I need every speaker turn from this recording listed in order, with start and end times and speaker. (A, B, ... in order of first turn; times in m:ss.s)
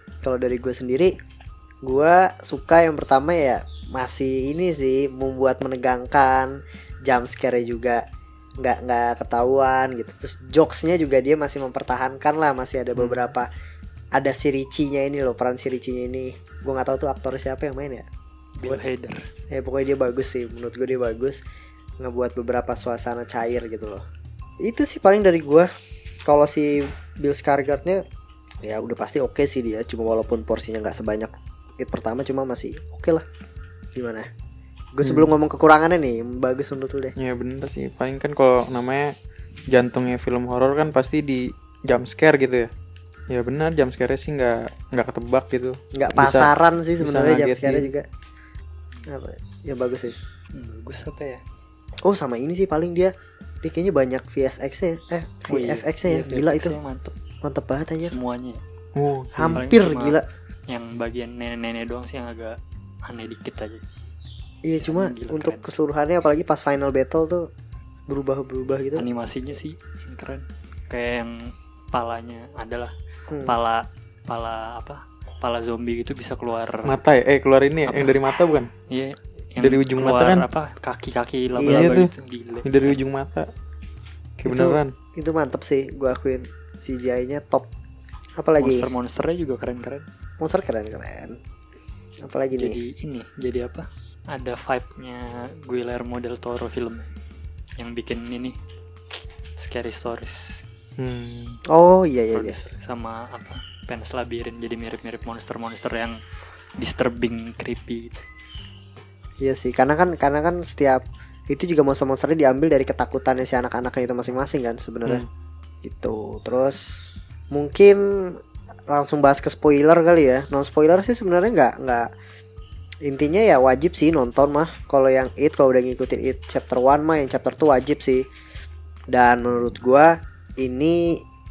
0:00.2-0:01.1 A
0:01.8-0:08.0 A
0:08.6-0:13.5 A
0:13.0-0:13.2 B
0:14.1-0:18.1 A
0:18.6-0:19.2 C
0:19.5-0:21.4 A
0:22.0-0:24.0 A
0:24.6-0:25.7 A
0:26.2-0:28.0 A
0:28.6-0:33.2 A
0:33.9-0:34.2 A
0:34.9-0:37.1 A
0:35.0-0:35.3 B
0:37.2-0:39.1 B
0:39.7-0:42.7 B
0:43.3-0:47.9 B
0:45.9-0:48.0 A
0:49.1-0:50.2 A
0:50.5-0:51.4 C
0:52.0-0:56.7 A
0:55.5-0:57.1 C
0:57.4-0:58.1 A
0:58.0-0:58.6 C
0:58.9-0:59.6 B
0:59.3-1:00.2 A
0:59.5-1:00.2 C
1:00.7-1:03.8 C
1:04.6-1:07.5 A
1:04.7-1:05.6 C
1:08.1-1:09.0 A
1:09.0-1:12.9 C
1:13.3-1:13.6 A
1:13.4-1:16.9 C
1:16.8-1:18.7 B
1:17.9-1:18.2 C
1:18.9-1:23.0 C
1:19.6-1:20.5 B
1:21.6-1:22.0 A
1:21.6-1:22.1 B
1:22.6-1:23.5 B
1:24.4-1:27.7 A
1:24.4-1:24.9 B
1:28.4-1:28.9 A
1:28.6-1:30.0 C
1:30.4-1:31.4 A
1:32.2-1:32.8 A
1:32.5-1:37.1 C
1:37.8-1:38.6 C
1:39.6-1:40.6 C
1:41.0-1:41.6 B
1:41.7-1:42.6 A
1:42.3-1:46.2 C
1:46.8-1:48.2 C
1:49.4-1:55.2 A
1:55.8-1:58.4 A
1:58.9-2:02.1 A
2:03.0-2:08.2 A
2:09.1-2:11.2 A